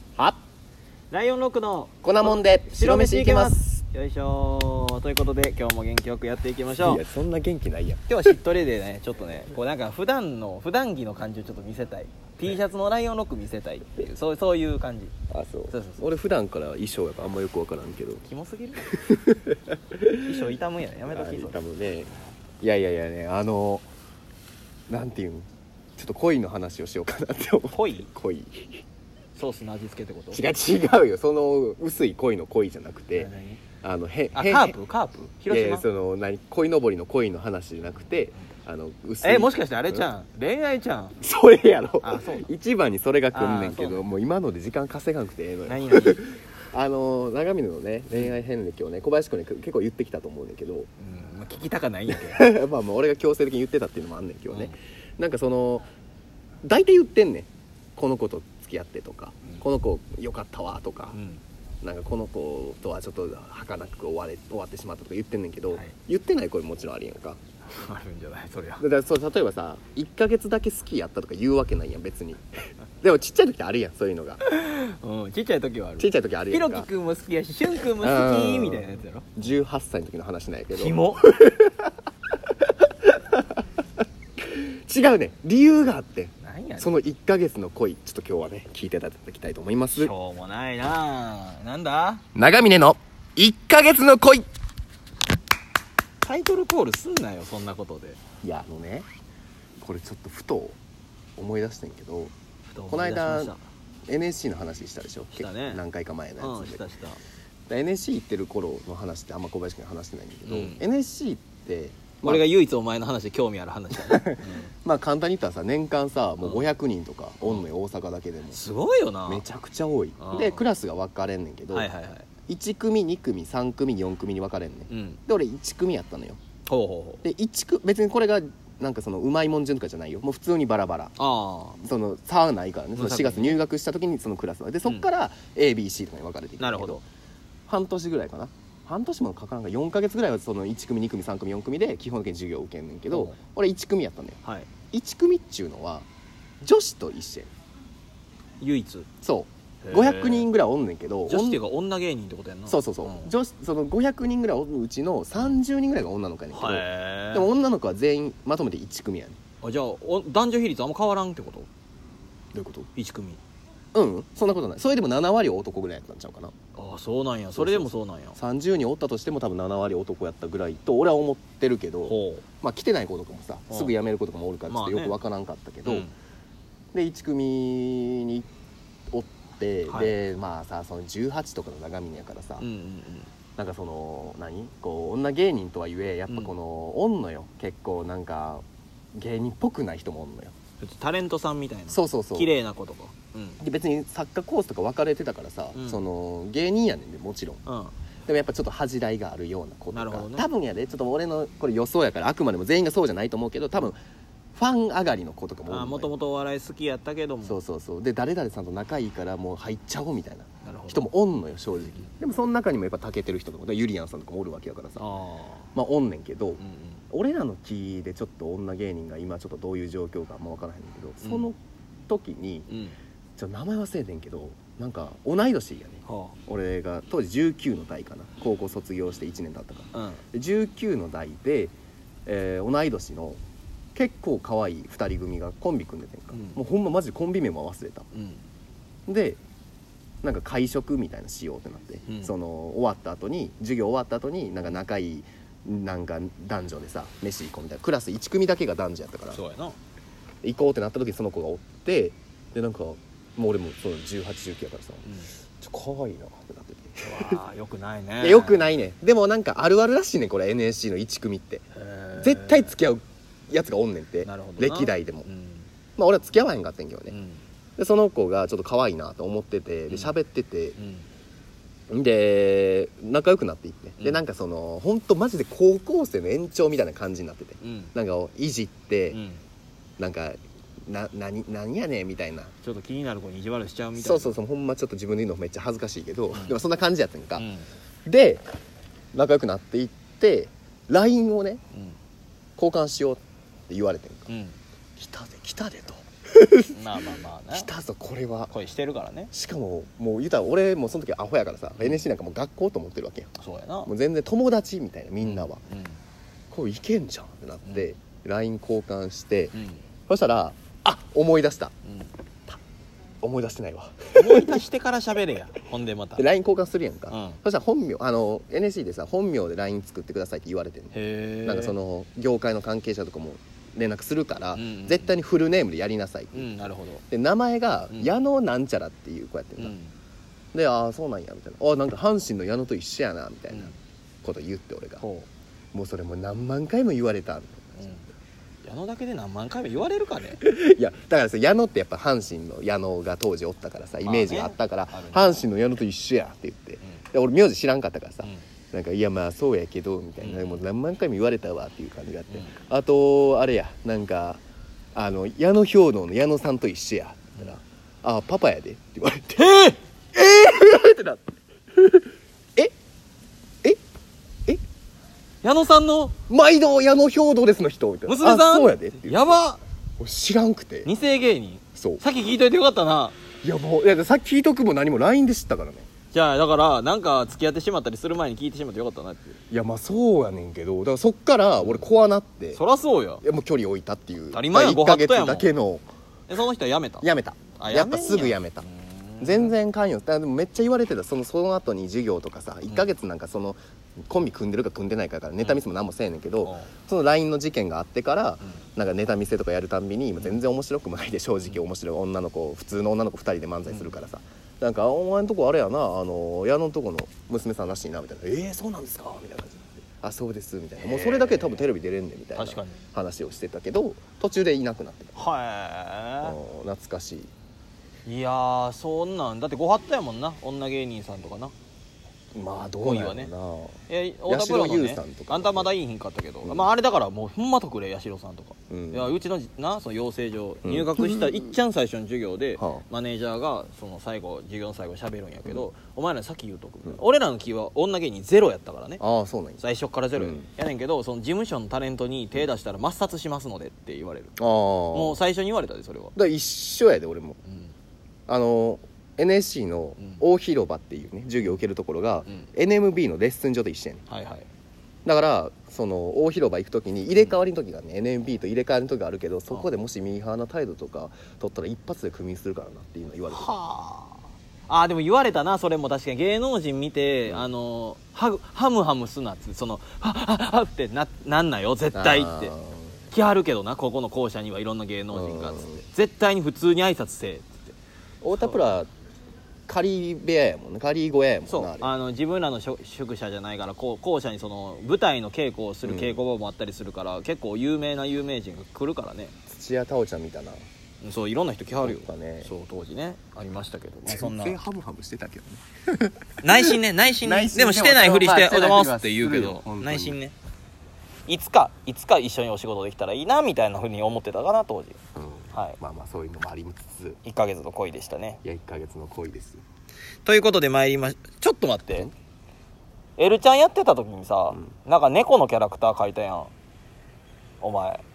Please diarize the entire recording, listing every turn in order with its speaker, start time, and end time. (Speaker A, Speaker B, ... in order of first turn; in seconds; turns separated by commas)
Speaker A: 1.1-7.0, Speaker B: 2.0-3.6, Speaker B: 6.7-8.4, Speaker A: 8.1-15.1, Speaker B: 15.3-18.2, Speaker A: 15.7-16.0, Speaker A: 18.2-18.9, Speaker B: 18.9-20.4, Speaker A: 20.2-21.6, Speaker B: 21.1-23.9, Speaker B: 24.9-25.4, Speaker B: 26.0-28.8, Speaker A: 27.7-28.1, Speaker A: 29.4-30.4, Speaker B: 30.3-33.3, Speaker A: 33.2-33.6, Speaker B: 33.8-34.8, Speaker A: 34.3-35.8, Speaker B: 35.5-40.1, Speaker A: 39.2-41.2, Speaker B: 41.2-50.9, Speaker A: 42.0-42.5, Speaker A: 43.3-44.0, Speaker A: 45.7-46.2, Speaker A: 51.0-52.5, Speaker B: 52.1-55.9, Speaker A: 54.5-54.7, Speaker B: 56.6-61.2, Speaker A: 61.1-61.4, Speaker B: 61.8-67.4, Speaker A: 67.7-68.8, Speaker B: 68.8-72.4, Speaker B: 73.0-74.4, Speaker A: 74.4-79.3, Speaker B: 76.0-76.9, Speaker B: 78.0-81.9, Speaker A: 80.7-81.3, Speaker B: 82.6-83.6, Speaker B: 84.4-90.1, Speaker A: 86.4-86.9, Speaker A: 89.9-92.2, Speaker B: 92.3-94.5, Speaker A: 96.2-98.2, Speaker B: 98.4-99.1, Speaker B: 99.8-100.8, Speaker B: 101.4-102.3, Speaker A: 102.7-103.6, Speaker B: 102.9-103.5, Speaker B: 104.1-106.8, Speaker A: 105.3-105.8, Speaker A: 106.4-107.2, Speaker B: 107.7-112.5, Speaker A: 110.5-110.8, Speaker A: 112.2-114.7, Speaker B: 114.0-118.6, Speaker A: 118.5-119.4, Speaker B: 119.3-121.9, Speaker A: 120.2-120.6, Speaker A: 121.7-122.2, Speaker B: 122.5-126.4, Speaker A: 124.9-125.2, Speaker A: 126.7-127.2, Speaker B: 127.2-131.1, Speaker A: 131.2-131.8, Speaker B: 131.8-137.0, Speaker A: 133.0-133.6, Speaker A: 136.6-137.0, Speaker B: 137.7-144.4, Speaker A: 143.1-143.3, Speaker A: 144.4-144.7, Speaker B: 144.9-146.1, Speaker B: 146.6-147.5, Speaker A: 148.6-149.1, Speaker B: 149.2-151.6, Speaker A: 149.8-150.5, Speaker A: 151.3-153.3, Speaker B: 152.7-159.4, Speaker A: 156.5-157.5, Speaker A: 159.6-161.7, Speaker B: 162.5-162.9, Speaker A: 162.9-163.4, Speaker B: 163.9-166.5, Speaker A: 166.8-168.4, Speaker B: 167.5-176.1, Speaker A: 172.1-172.4, Speaker A: 174.7-175.2, Speaker A: 175.8-176.1, Speaker B: 176.9-178.5, Speaker B: 179.1-182.7, Speaker A: 179.9-180.1, Speaker A: 182.6-183.3, Speaker B: 183.6-188.6, Speaker B: 189.2-190.5, Speaker A: 190.8-193.6, Speaker B: 191.9-192.5, Speaker B: 193.6-197.6, Speaker A: 195.8-196.0, Speaker A: 197.7-197.9, Speaker B: 198.2-204.0, Speaker A: 199.9-200.4, Speaker B: 204.5-206.1, Speaker A: 205.7-207.6, Speaker B: 207.4-215.0, Speaker A: 210.6-211.1, Speaker A: 215.0-215.7, Speaker B: 215.7-221.6, Speaker A: 216.6-217.0, Speaker A: 221.2-221.5, Speaker B: 222.1-222.7, Speaker A: 222.7-222.9, Speaker B: 223.4-231.7, Speaker A: 226.0-226.3, Speaker A: 229.9-230.2, Speaker B: 232.2-233.4, Speaker B: 233.9-238.1, Speaker A: 236.3-236.6, Speaker A: 238.1-238.4, Speaker B: 239.1-239.4, Speaker B: 240.2-249.4, Speaker A: 242.1-242.3, Speaker A: 249.3-249.8, Speaker B: 250.4-257.4, Speaker A: 257.1-258.7, Speaker B: 258.2-261.6, Speaker A: 261.8-262.8, Speaker B: 262.2-265.3, Speaker A: 264.2-265.7, Speaker B: 266.0-267.1, Speaker A: 267.1-267.4, Speaker B: 267.8-270.8, Speaker A: 270.8-271.1, Speaker B: 271.9-279.2, Speaker A: 277.6-277.9, Speaker A: 279.1-279.4, Speaker B: 280.0-282.5, Speaker A: 282.6-284.4, Speaker B: 283.9-287.5, Speaker A: 287.4-287.7, Speaker B: 288.1-288.4, Speaker B: 289.1-291.6, Speaker B: 292.6-294.3, Speaker A: 294.3-294.6, Speaker B: 295.0-296.9, Speaker A: 296.7-297.7, Speaker B: 297.5-298.5, Speaker A: 298.5-299.3, Speaker B: 299.3-305.6, Speaker A: 303.4-303.9, Speaker A: 305.2-306.0, Speaker B: 306.5-309.6, Speaker A: 309.5-309.8, Speaker B: 310.1-311.7, Speaker B: 313.2-314.6, Speaker A: 314.1-316.2, Speaker B: 316.1-329.7, Speaker A: 317.1-317.4, Speaker A: 320.9-321.7, Speaker A: 324.6-325.1, Speaker A: 326.3-327.0, Speaker A: 329.6-329.9, Speaker B: 330.5-335.0, Speaker A: 335.0-335.3, Speaker B: 335.7-337.9, Speaker A: 337.8-338.1, Speaker A: 338.6-340.4, Speaker B: 340.4-354.4, Speaker A: 344.0-345.4, Speaker A: 350.2-350.6, Speaker B: 354.9-362.1, Speaker A: 359.4-359.8, Speaker A: 365.4-366.1, Speaker B: 366.3-369.4, Speaker A: 368.1-369.6, Speaker B: 370.0-370.9, Speaker A: 370.8-373.1, Speaker B: 371.8-372.0, Speaker B: 373.4-375.9, Speaker A: 376.1-379.4, Speaker B: 379.5-382.6, Speaker A: 381.6-381.9, Speaker A: 382.6-383.2, Speaker B: 383.2-385.8, Speaker A: 384.3-385.5, Speaker A: 386.3-387.1, Speaker B: 387.0-388.7, Speaker A: 387.6-389.5, Speaker B: 389.2-415.2, Speaker A: 396.4-396.7, Speaker A: 410.8-411.6, Speaker A: 412.4-412.8, Speaker A: 415.1-416.4, Speaker B: 416.2-417.3, Speaker A: 418.1-421.5, Speaker B: 422.3-425.7, Speaker A: 422.8-423.3, Speaker A: 423.9-439.0, Speaker B: 426.4-426.7, Speaker B: 428.7-429.1, Speaker B: 430.6-431.4, Speaker B: 432.6-432.8, Speaker B: 439.0-439.6, Speaker A: 439.6-444.3, Speaker B: 440.1-440.4, Speaker B: 444.4-445.2, Speaker A: 444.9-446.1, Speaker B: 446.1-447.4, Speaker A: 447.5-447.7, Speaker B: 448.3-454.1, Speaker A: 454.1-454.5, Speaker B: 455.1-463.6, Speaker A: 463.3-472.5, Speaker B: 471.9-473.0, Speaker A: 473.1-477.8, Speaker B: 475.1-475.8, Speaker B: 478.2-478.9, Speaker B: 479.7-481.9, Speaker A: 481.5-489.3, Speaker B: 485.8-486.2, Speaker B: 489.5-490.6, Speaker A: 491.0-494.6, Speaker B: 491.8-492.5, Speaker B: 494.1-500.2, Speaker A: 496.4-500.3, Speaker A: 501.3-505.0, Speaker B: 505.1-507.2, Speaker A: 507.2-508.4, Speaker B: 508.4-509.6, Speaker A: 510.2-512.1, Speaker A: 513.2-516.5, Speaker A: 517.6-518.0